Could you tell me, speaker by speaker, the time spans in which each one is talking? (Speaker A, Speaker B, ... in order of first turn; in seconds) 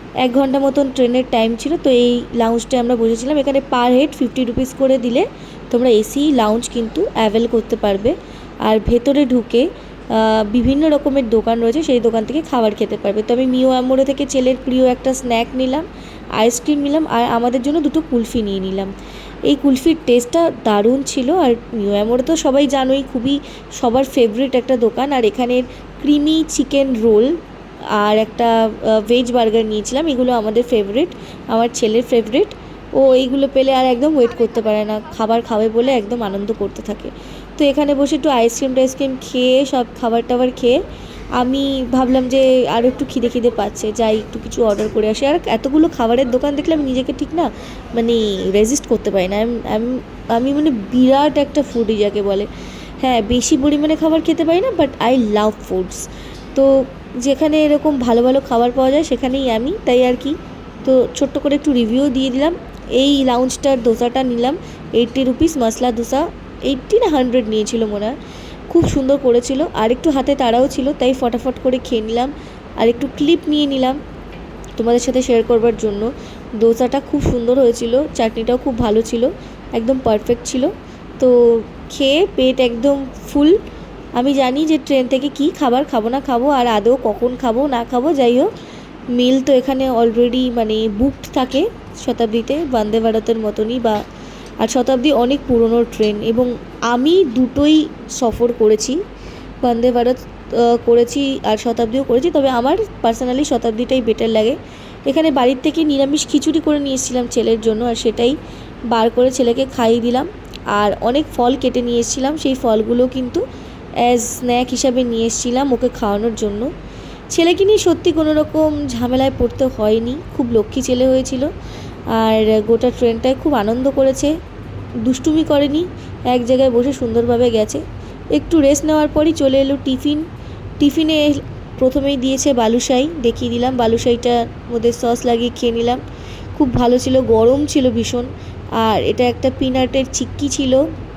Speaker A: 0.2-15.8, 16.4-18.9, 19.5-27.3, 28.0-40.8, 41.4-52.5, 53.0-68.1, 68.7-74.0, 74.8-76.1, 76.6-83.6, 84.2-88.5, 89.1-94.0, 94.6-99.0, 99.6-104.6, 105.1-108.3, 108.9-113.4, 114.0-116.7, 117.3-121.5, 122.1-124.3, 125.0-127.8, 128.3-130.2, 130.8-136.0, 136.5-140.8